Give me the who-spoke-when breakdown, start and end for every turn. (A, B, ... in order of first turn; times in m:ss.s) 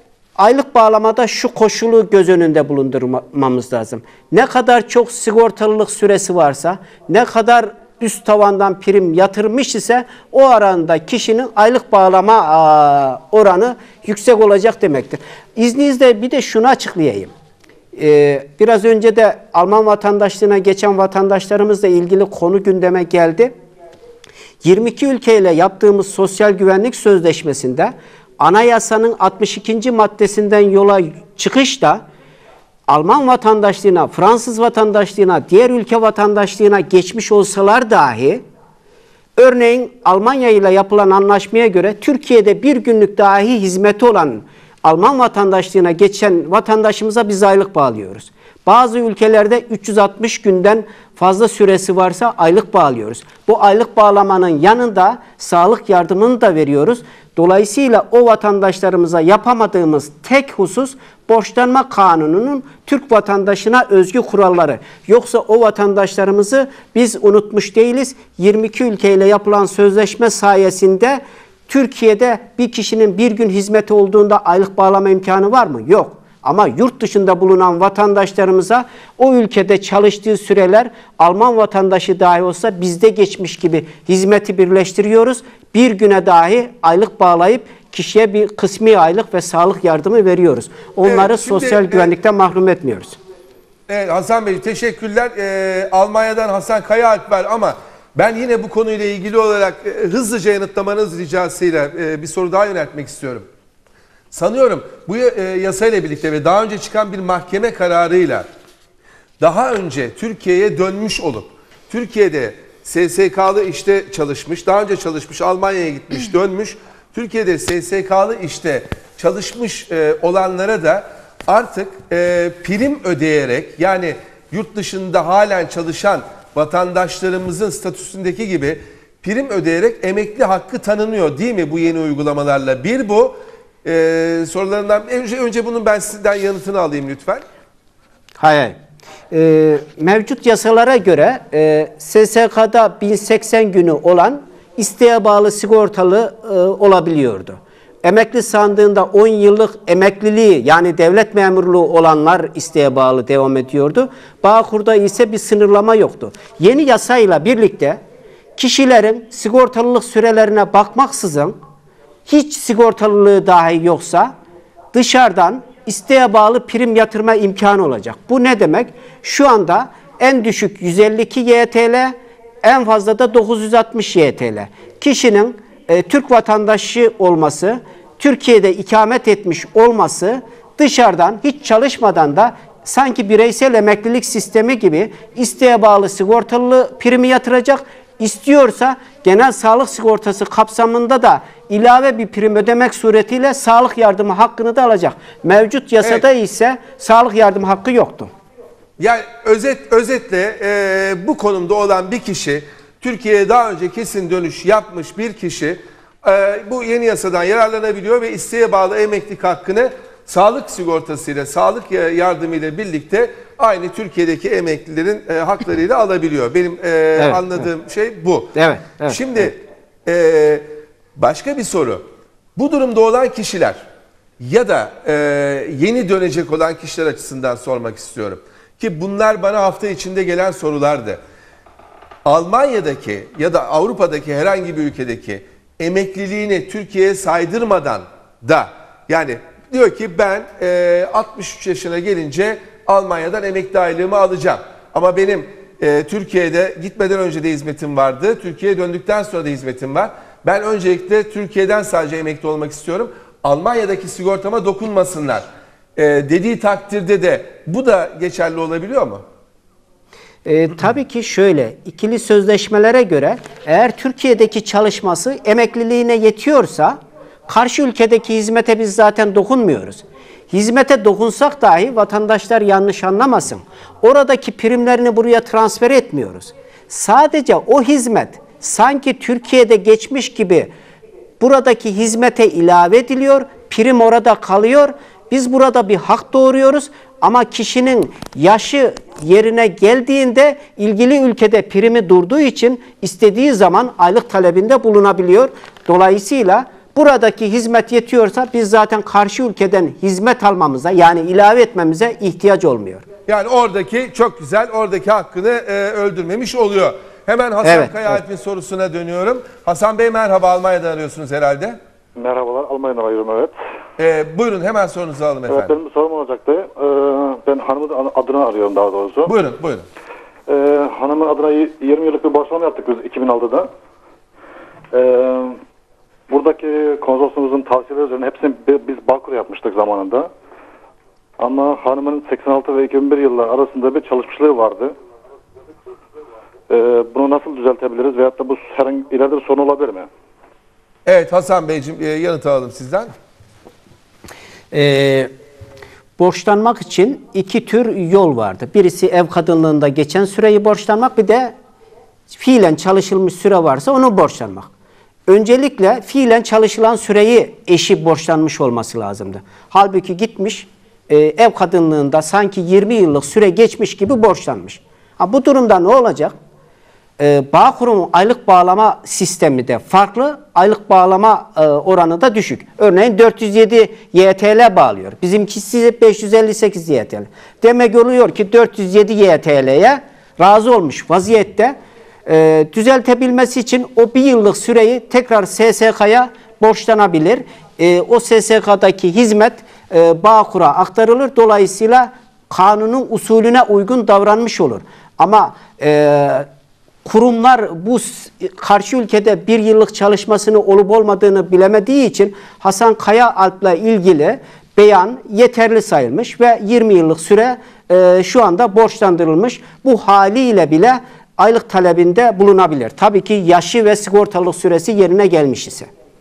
0:00.4-0:17.3 A
0:18.0-0:23.5 A
0:24.6-0:32.0 A
0:32.9-0:38.4 A
0:39.4-1:33.2 A
1:31.0-1:32.1 B
1:33.9-1:43.4 B
1:44.3-1:48.4 B
1:49.4-2:17.4 B
2:18.4-2:18.8 A
2:19.3-2:38.0 A
2:38.6-2:41.5 A
2:42.2-2:44.3 A
2:44.9-3:18.3 A
3:19.0-3:40.6 B
3:37.2-3:37.7 A
3:38.5-3:39.5 A
3:41.2-3:42.0 B
3:42.6-3:43.8 B
3:44.4-3:51.2 B
3:52.2-4:15.4 B
4:16.0-4:19.2 B
4:20.4-4:27.0 A
4:27.5-4:40.7 A
4:41.4-5:03.0 A
5:03.3-5:11.8 B
5:07.6-5:08.2 A
5:12.2-5:13.5 C
5:14.0-5:15.8 B
5:15.5-5:19.3 C
5:19.2-5:19.9 B
5:20.5-5:23.7 C
5:24.9-5:25.6 C
5:26.3-5:30.3 C
5:31.4-5:34.9 C
5:36.7-5:40.1 C
5:41.0-5:43.1 B
5:44.7-5:45.3 A
5:46.2-5:51.5 A
5:52.3-5:54.7 A
5:55.3-6:06.3 A
6:07.2-6:21.7 A
6:22.2-6:36.4 A
6:37.0-6:55.9 A